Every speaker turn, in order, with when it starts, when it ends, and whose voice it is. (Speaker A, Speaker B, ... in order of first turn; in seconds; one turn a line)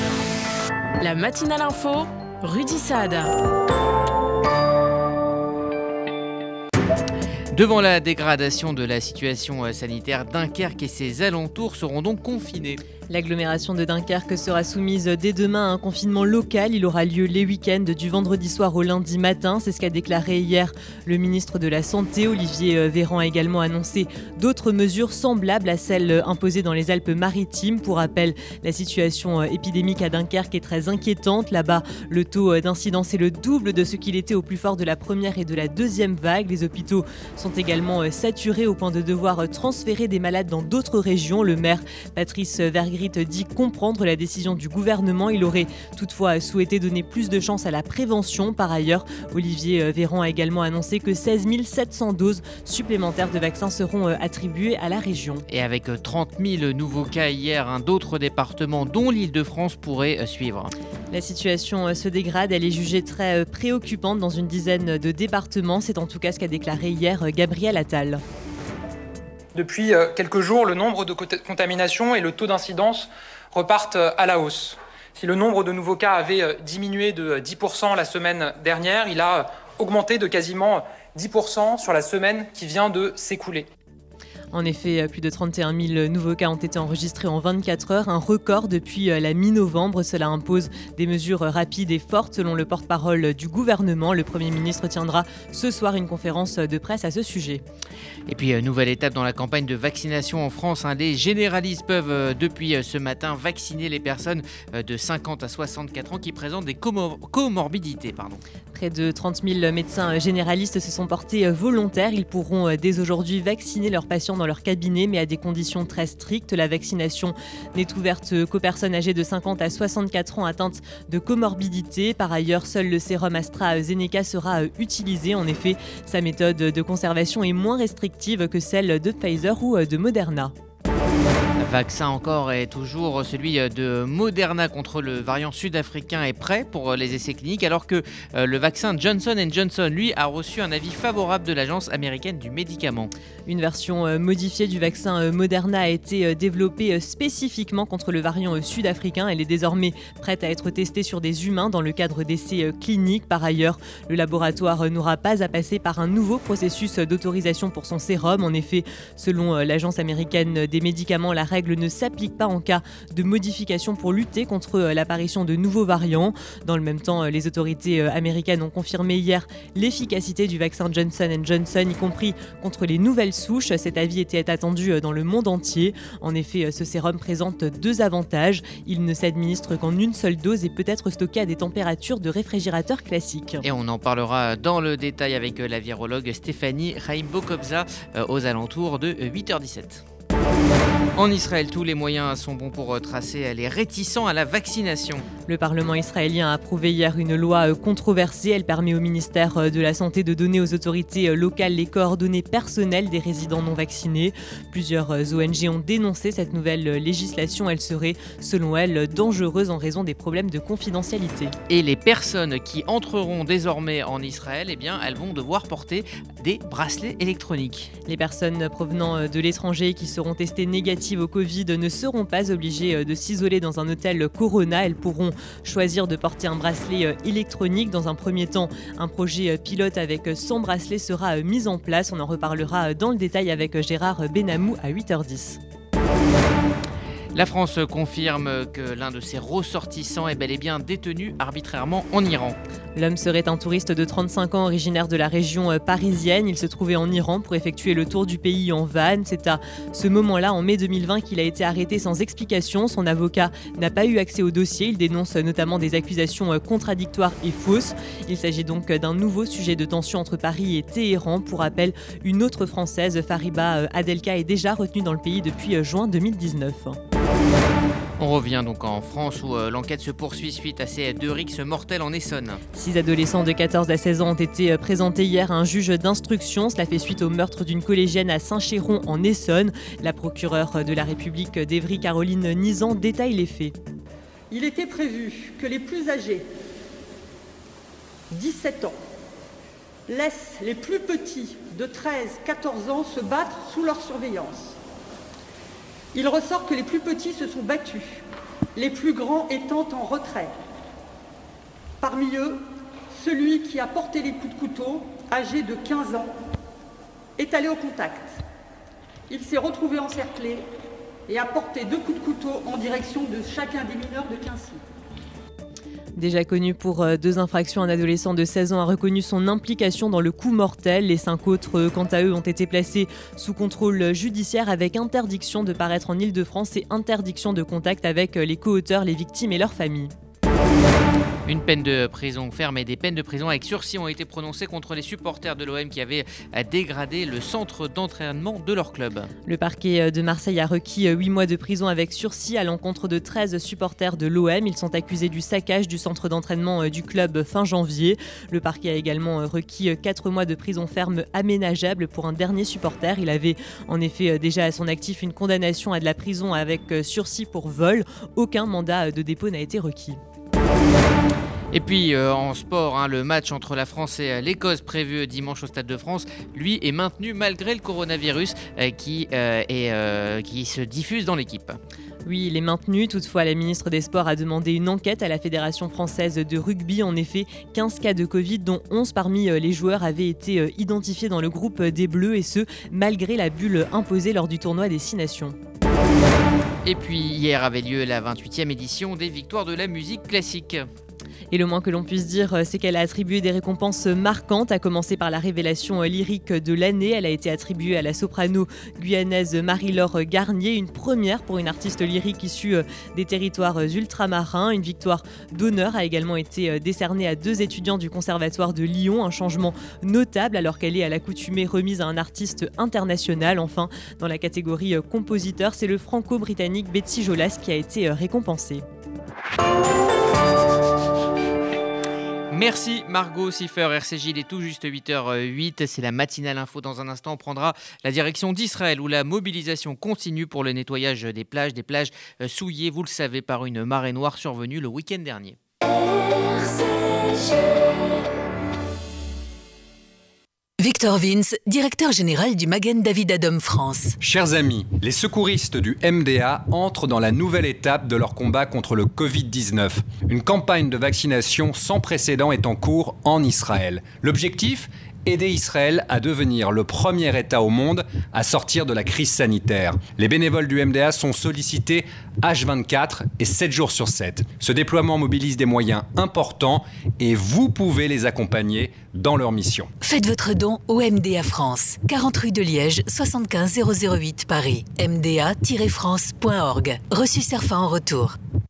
Speaker A: 1.0-3.3
Speaker B: 7.5-12.8
Speaker C: 13.1-55.4
Speaker B: 55.5-60.7
Speaker C: 61.1-68.2
Speaker D: 69.5-83.7
Speaker C: 84.5-97.6
Speaker B: 98.3-108.4
Speaker C: 108.7-130.5
Speaker B: 131.6-143.1
Speaker C: 143.4-183.6
Speaker B: 183.6-190.0
Speaker B: 191.2-195.3
Speaker C: 195.5-211.5
Speaker B: 211.7-217.9
Speaker C: 218.1-235.6
Speaker B: 237.3-242.6
Speaker C: 242.9-267.0
Speaker B: 268.2-272.6
Speaker C: 272.7-283.7
Speaker E: 284.5-286.5
Speaker E: 288.3-289.0
Speaker E: 290.1-294.8
Speaker E: 296.1-300.5
Speaker E: 302.0-306.3
Speaker E: 307.4-308.4
Speaker E: 309.3-310.7
Speaker E: 311.3-314.8
Speaker C: 316.1-330.1
Speaker B: 331.4-339.3
Speaker C: 339.4-360.2
Speaker B: 361.7-371.8
Speaker C: 372.2-385.6
Speaker B: 386.8-390.9
Speaker C: 391.5-418.8
Speaker B: 422.5-435.6
Speaker F: 440.8-444.1
Speaker G: 444.2-469.9
Speaker F: 470.0-478.4